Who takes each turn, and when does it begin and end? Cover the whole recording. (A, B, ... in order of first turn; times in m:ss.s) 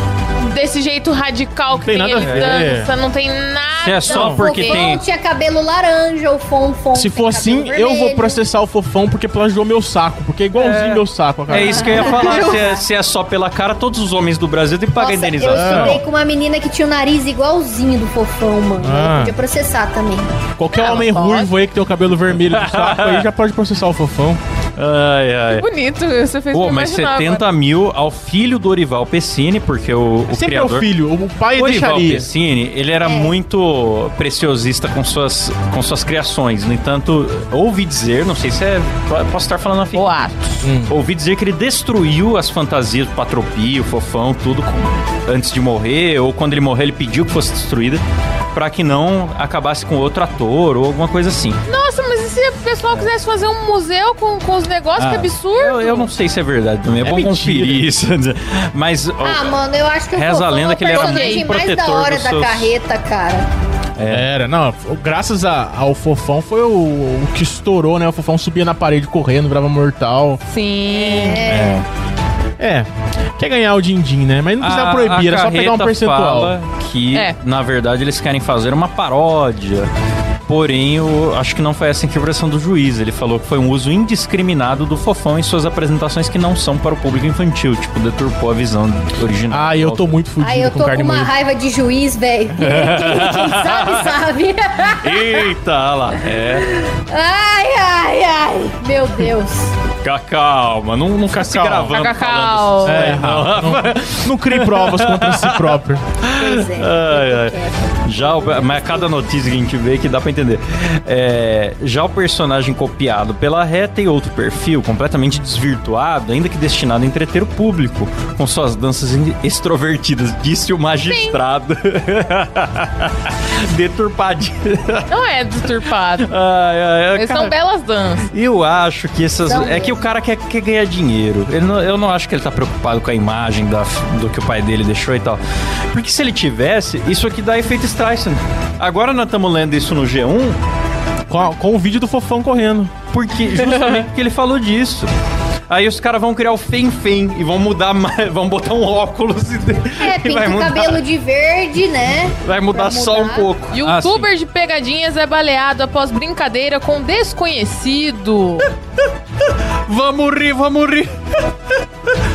0:00.4-0:04.8 A
0:01.8-0:02.9 B
0:02.2-0:02.7 C
0:03.8-0:05.0 C
0:04.1-0:08.4 D
0:04.1-0:04.4 B
0:06.9-0:12.6 B
0:10.5-0:16.0 C
0:11.6-0:12.8 D
0:15.0-0:20.3 D
0:15.5-0:16.0 B
0:18.8-0:19.4 B
0:20.6-0:24.4 B
0:20.8-0:21.5 A
0:22.4-0:23.3 C
0:24.8-0:25.7 C
0:25.5-0:27.5 A
0:26.5-0:30.9 C
0:30.3-0:32.3 B
0:31.5-0:40.2 C
0:33.0-0:33.4 D
0:39.9-0:40.7 A
0:40.6-0:41.0 B
0:40.9-0:48.0 C
0:48.5-0:51.6 C
0:51.7-0:56.1 A
0:55.0-0:59.6 C
0:57.0-0:57.9 B
0:59.2-1:03.5 D
1:00.1-1:02.8 C
1:00.9-1:01.5 A
1:04.0-1:04.3 C
1:04.1-1:10.4 B
1:10.5-1:11.5 A
1:10.9-1:11.8 D
1:11.5-1:11.8 C
1:11.5-1:11.9 B
1:12.6-1:16.6 B
1:14.6-1:19.9 C
1:20.5-1:30.2 C
1:29.5-1:31.3 B
1:30.4-1:35.5 D
1:32.6-1:34.2 C
1:34.9-1:36.7 C
1:36.6-1:39.7 D
1:40.0-2:05.1 C
1:41.3-1:42.0 B
1:41.9-1:43.2 A
1:42.8-1:46.0 B
1:46.4-1:49.2 D
2:01.0-2:01.4 A
2:05.1-2:06.3 A
2:06.2-2:07.5 C
2:07.2-2:08.2 A
2:08.3-2:15.4 C
2:09.4-2:10.1 D
2:15.9-2:20.6 C
2:21.3-2:22.9 B
2:23.1-2:25.1 C
2:25.7-2:31.0 C
2:30.0-2:33.5 D
2:32.4-2:34.3 C
2:33.7-2:38.7 A
2:39.9-2:41.1 C